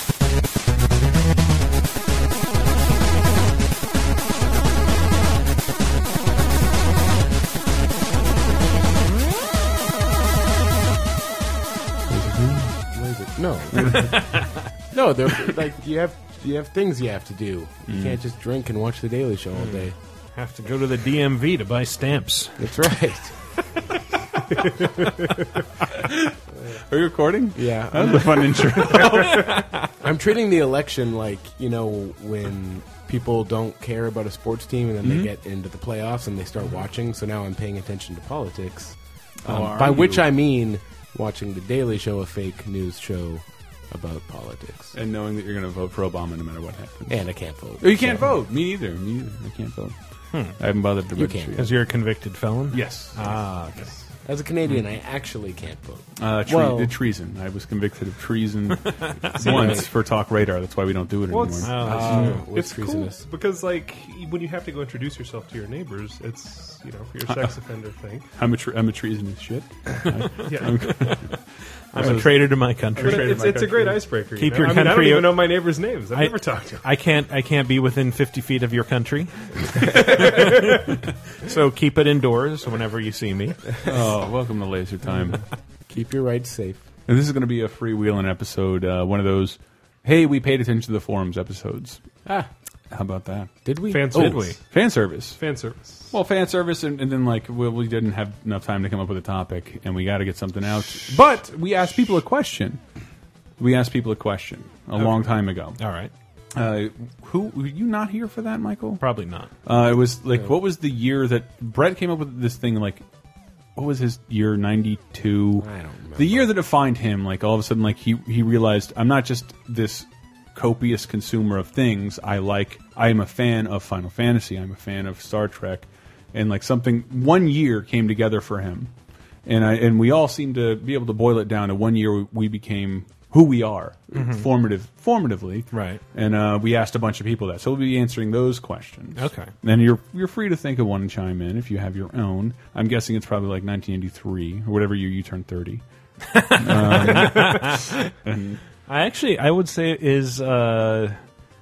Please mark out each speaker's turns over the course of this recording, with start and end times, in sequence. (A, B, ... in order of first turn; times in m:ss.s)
0:12.1-0:12.9 A
0:12.9-0:14.3 B
0:13.8-0:14.4 A
0:14.9-0:20.0 B
0:17.9-0:18.2 A
0:19.6-0:22.7 C
0:22.6-0:23.4 B
0:25.9-0:29.6 A
0:27.5-0:28.7 B
0:30.0-0:45.0 B
0:35.0-0:35.3 A
0:39.4-0:40.3 A
0:44.9-0:47.2 A
0:47.1-0:48.3 B
0:47.8-0:50.0 A
0:50.5-0:51.8 A
0:51.1-0:51.7 B
0:51.6-0:54.0 C
0:52.7-0:53.4 A
0:54.2-0:56.9 B
0:56.2-1:02.4 A
0:59.4-0:59.9 B
1:01.3-1:08.2 D
1:01.6-1:02.4 C
1:01.8-1:03.2 B
1:08.3-1:14.0 A
1:10.4-1:10.8 D
1:11.9-1:13.4 C
1:13.0-1:16.8 D
1:14.4-1:20.8 C
1:20.1-1:20.5 D
1:21.4-1:23.7 C
1:23.8-1:25.4 A
1:25.9-1:26.9 B
1:27.1-1:32.0 A
1:32.9-1:33.5 A
1:33.6-1:34.3 B
1:33.9-1:34.7 D
1:34.1-1:34.6 C
1:34.2-1:35.5 A
1:35.4-1:36.1 D
1:36.1-1:42.8 A
1:43.6-1:45.8 A
1:45.0-1:45.3 D
1:45.8-1:46.1 C
1:46.5-1:49.0 A
1:49.0-1:49.5 C
1:49.6-1:53.0 A
1:53.8-2:08.9 A
1:55.6-1:56.6 B
2:09.4-2:25.8 A
2:14.1-2:14.5 C
2:15.7-2:16.0 C
2:19.2-2:19.5 C
2:26.3-2:27.9 C
2:26.4-2:28.6 A
2:28.9-2:31.2 C